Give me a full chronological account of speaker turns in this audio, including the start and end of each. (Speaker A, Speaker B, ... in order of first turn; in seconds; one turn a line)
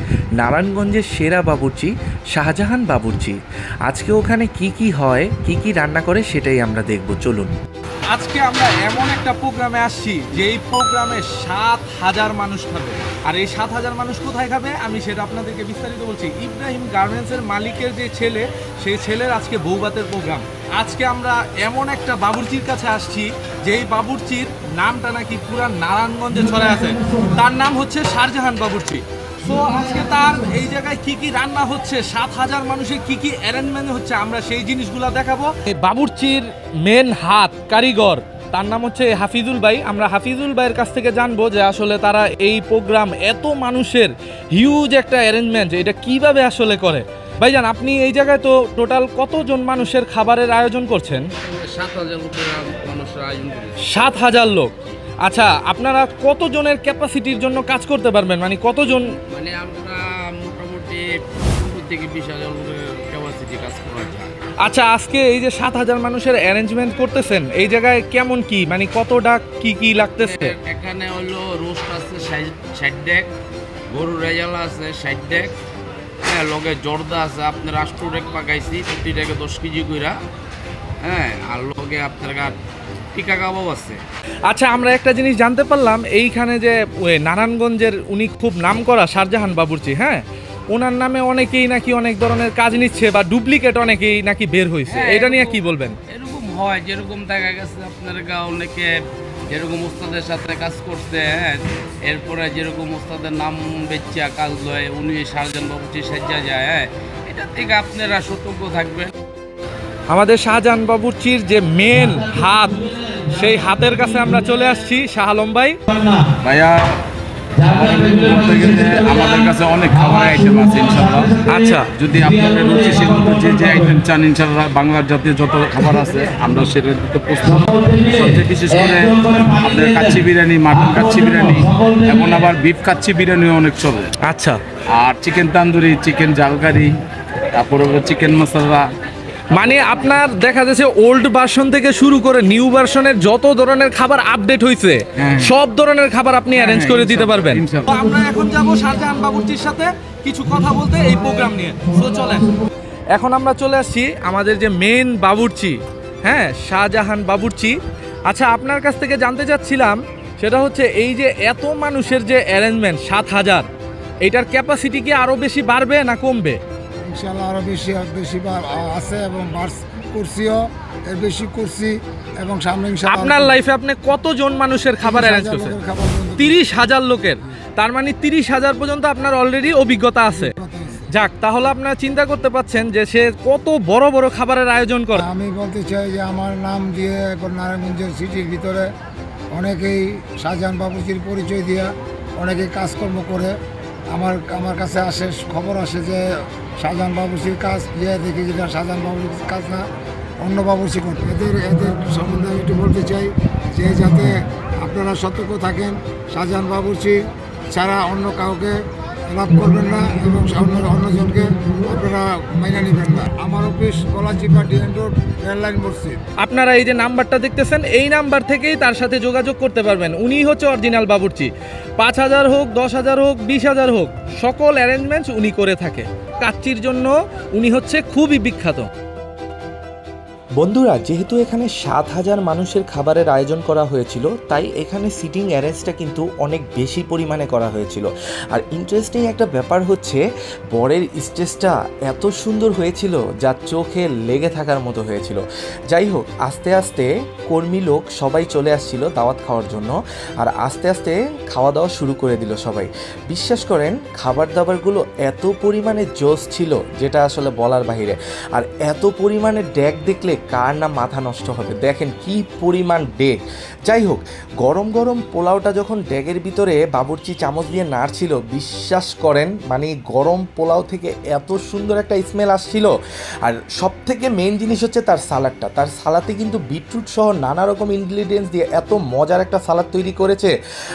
Speaker A: 0.4-7.5
Speaker B: 8.1-51.2
Speaker C: 51.4-53.8
Speaker B: 53.8-54.7
Speaker B: 55.2-59.1
Speaker C: 59.2-64.4
Speaker B: 64.6-70.5
Speaker C: 70.2-73.3
Speaker C: 73.9-75.5
Speaker C: 76.2-80.2
Speaker C: 81.0-82.6
Speaker C: 83.1-84.0
Speaker B: 84.5-96.0
Speaker C: 94.9-98.9
Speaker C: 99.5-109.1
Speaker B: 110.1-112.8
Speaker D: 111.0-111.4
Speaker B: 113.3-115.7
Speaker D: 115.0-115.5
Speaker D: 116.4-117.0
Speaker C: 117.6-121.7
Speaker D: 117.7-134.1
Speaker B: 121.5-121.9
Speaker C: 123.0-123.3
Speaker C: 127.7-130.2
Speaker C: 130.8-132.1
Speaker B: 134.2-134.6
Speaker D: 134.9-136.9
Speaker D: 137.6-138.9
Speaker B: 139.5-152.5
Speaker C: 146.6-147.8
Speaker D: 146.8-147.6
Speaker B: 153.1-157.7
Speaker B: 158.3-163.7
Speaker B: 164.2-166.6
Speaker E: 167.0-173.6
Speaker B: 173.2-175.7
Speaker E: 175.0-176.8
Speaker B: 176.4-180.5
Speaker E: 180.3-181.1
Speaker B: 181.2-185.2
Speaker E: 185.1-188.9
Speaker E: 189.5-193.5
Speaker E: 194.1-199.8
Speaker E: 200.4-207.2
Speaker E: 207.7-216.2
Speaker B: 216.4-228.9
Speaker A: 230.6-240.2
Speaker A: 240.7-272.9
Speaker A: 273.4-280.5